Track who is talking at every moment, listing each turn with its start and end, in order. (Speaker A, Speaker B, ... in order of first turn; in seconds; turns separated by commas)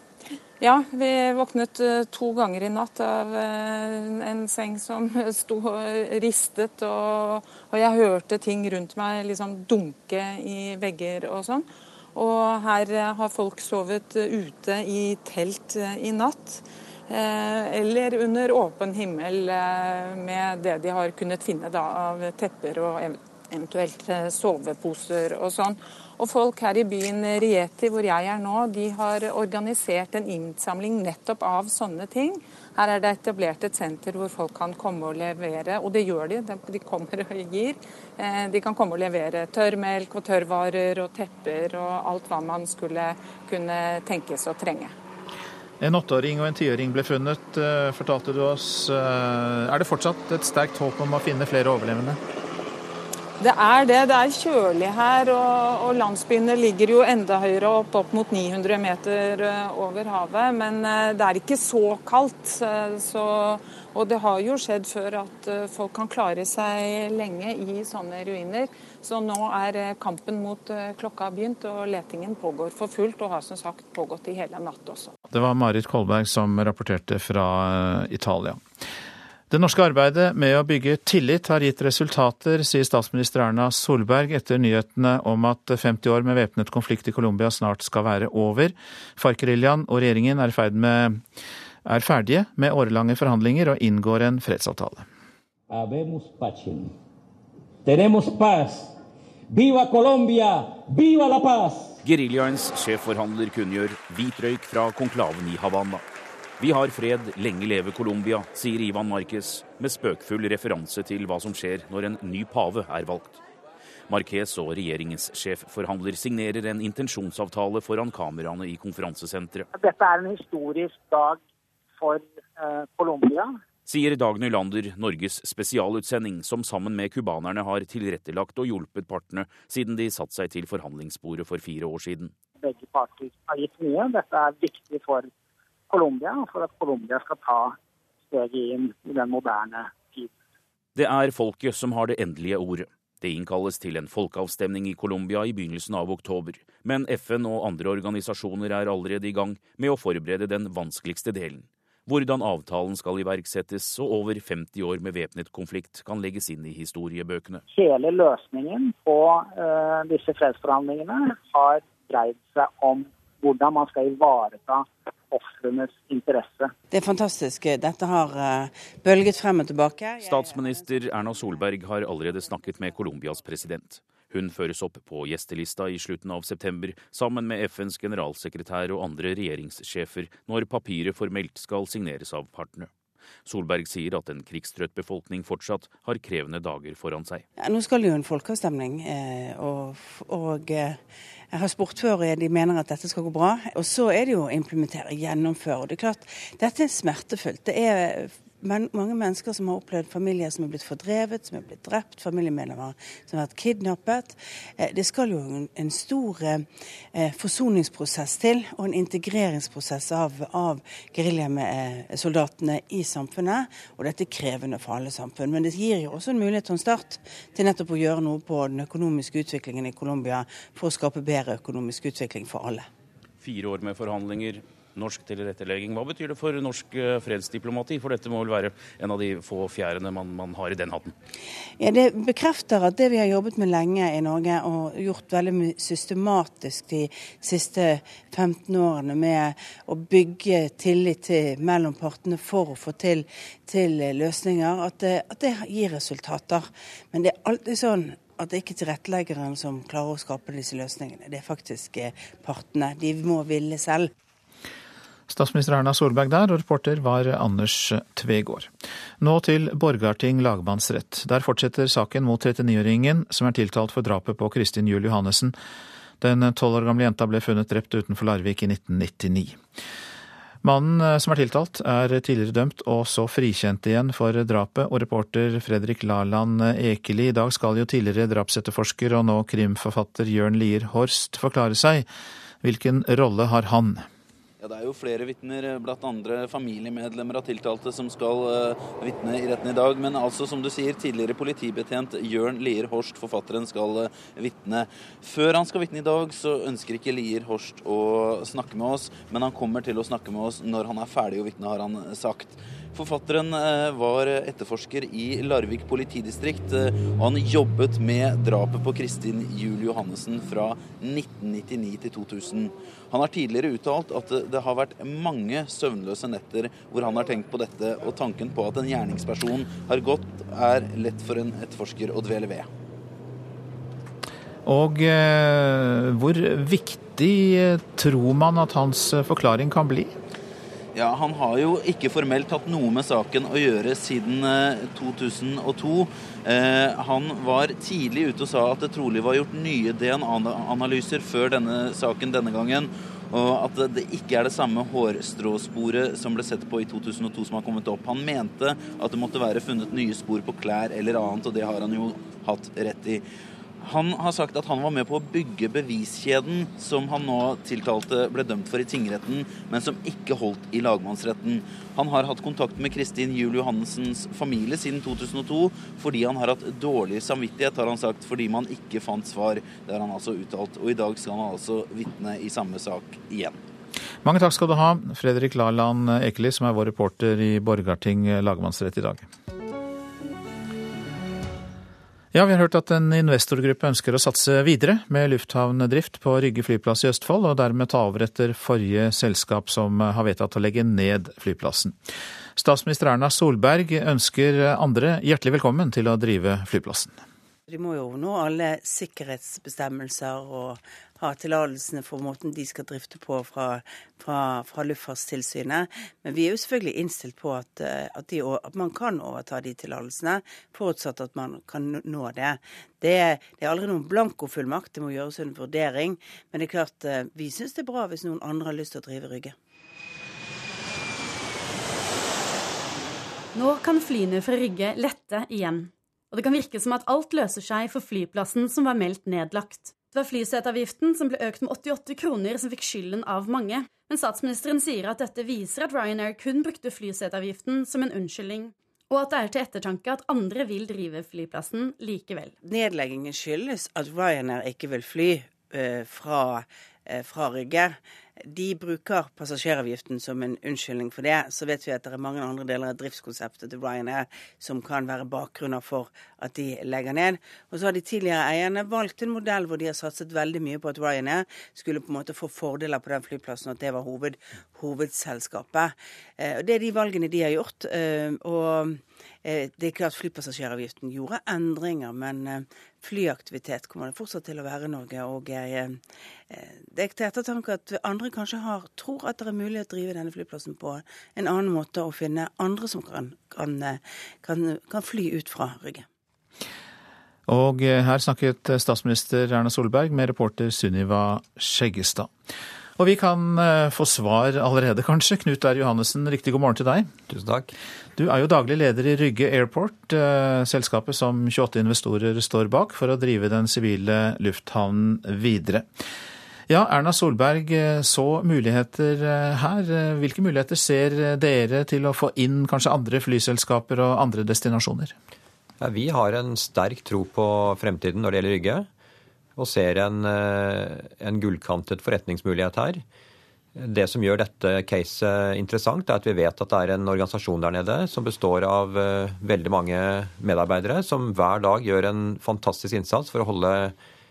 Speaker A: 0.6-44.9, Speaker B: 45.8-52.2, Speaker A: 53.4-75.1, Speaker B: 75.3-78.6, Speaker B: 79.5-91.2, Speaker B: 91.8-95.0, Speaker C: 95.7-96.9, Speaker C: 97.8-98.9, Speaker C: 99.5-102.0, Speaker D: 102.0-106.0, Speaker D: 106.6-113.4, Speaker D: 114.1-119.7, Speaker E: 119.7-121.4, Speaker E: 122.0-123.5, Speaker D: 123.8-132.3, Speaker E: 132.6-135.3, Speaker E: 135.9-137.8, Speaker E: 138.3-140.3, Speaker D: 140.9-157.6, Speaker E: 157.7-166.7, Speaker F: 166.9-171.0, Speaker D: 170.2-182.9, Speaker D: 183.4-187.4, Speaker F: 187.6-191.0, Speaker F: 191.5-222.9, Speaker D: 223.4-231.1, Speaker F: 231.8-254.1, Speaker B: 255.3-265.5, Speaker B: 266.2-269.6, Speaker B: 270.6-282.1, Speaker B: 282.6-284.0, Speaker G: 284.6-322.7, Speaker B: 324.6-330.1, Speaker G: 330.9-353.2, Speaker G: 353.8-373.6, Speaker B: 374.2-379.2, Speaker B: 382.3-391.9, Speaker B: 392.6-397.2, Speaker F: 397.7-419.5, Speaker H: 423.6-442.5, Speaker G: 426.8-428.0, Speaker G: 436.8-438.2, Speaker G: 439.3-440.5, Speaker F: 442.6-486.0, Speaker B: 487.5-492.3, Speaker B: 493.0-497.1, Speaker I: 497.3-497.7, Speaker B: 498.2-505.8, Speaker B: 506.7-515.1, Speaker I: 515.8-518.9, Speaker I: 519.5-523.0, Speaker I: 523.8-533.9